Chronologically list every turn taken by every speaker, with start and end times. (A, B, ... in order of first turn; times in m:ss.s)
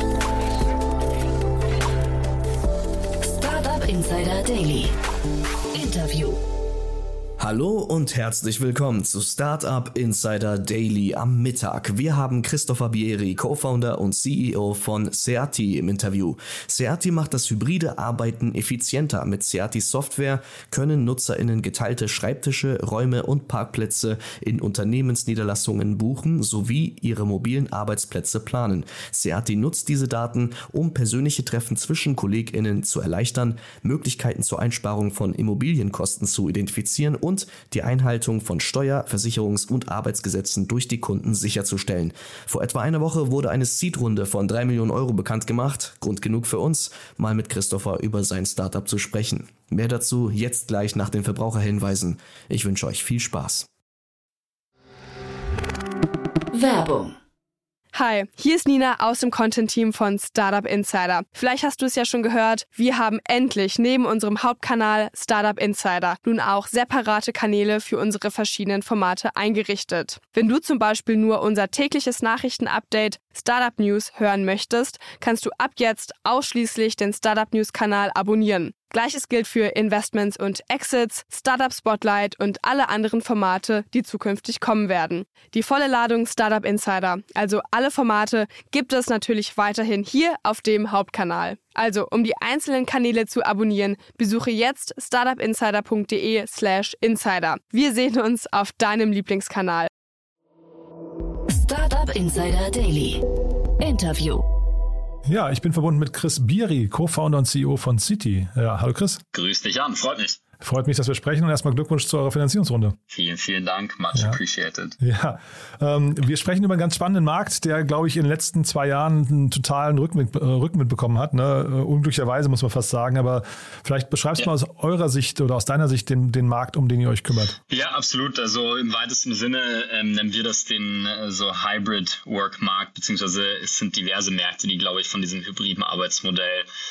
0:03.2-0:04.9 A
0:05.7-0:06.4 A
0:07.4-0:53.7 B
0:56.5-0:57.1 A
0:57.9-1:39.9 C
1:41.5-1:43.2 A
1:43.8-1:44.4 A
1:45.2-1:49.2 D
1:49.3-1:50.4 E
1:50.6-1:53.0 D
1:53.1-1:55.0 E
1:54.1-1:54.4 D
1:55.0-2:07.6 D
2:07.7-2:16.7 E